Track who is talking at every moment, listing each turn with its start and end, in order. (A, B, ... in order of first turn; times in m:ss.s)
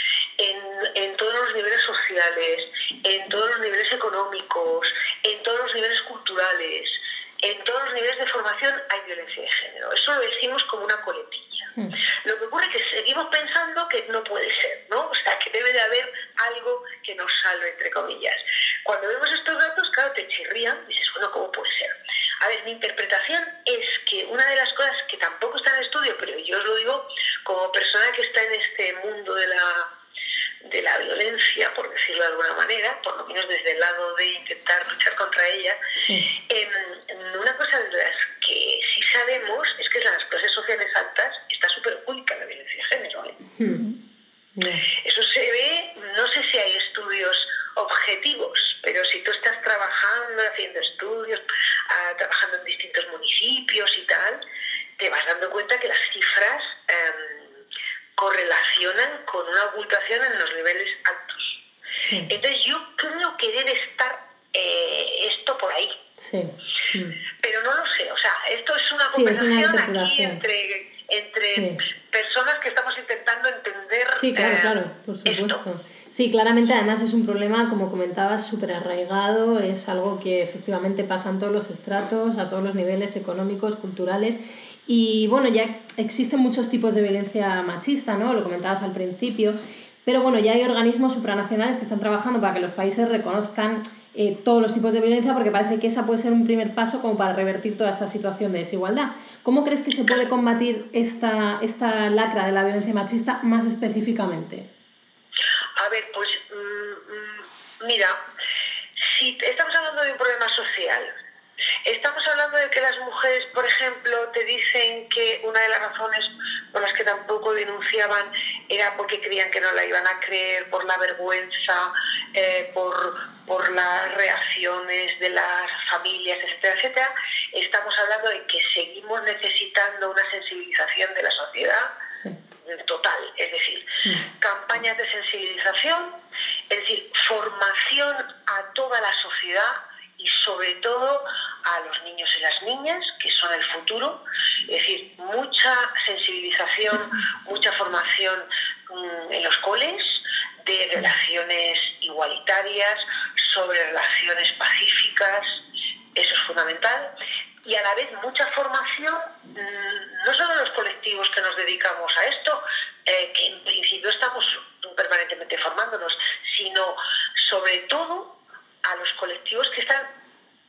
0:00.4-0:11.7 A
0:12.2-0:29.9 A
0:30.6-0:35.8 A
0:36.0-0:36.3 B
0:36.5-0:43.4 A
0:43.6-0:43.9 B
0:44.6-0:44.8 B
0:45.0-0:54.4 A
0:55.0-0:57.6 A
0:58.2-1:01.6 A
1:02.0-1:02.3 B
1:02.3-1:06.0 A
1:06.2-1:07.2 B
1:07.4-1:14.8 A
1:09.1-1:10.4 B
1:11.4-1:11.8 B
1:14.1-1:44.7 B
1:15.3-1:15.6 A
1:45.8-1:48.2 A
1:49.0-1:51.1 A
1:51.8-2:11.9 A
2:12.1-2:12.4 B
2:12.6-2:16.2 A
2:16.7-2:35.6 A
2:36.2-2:37.1 A
2:37.6-2:48.3 A
2:48.8-2:50.1 A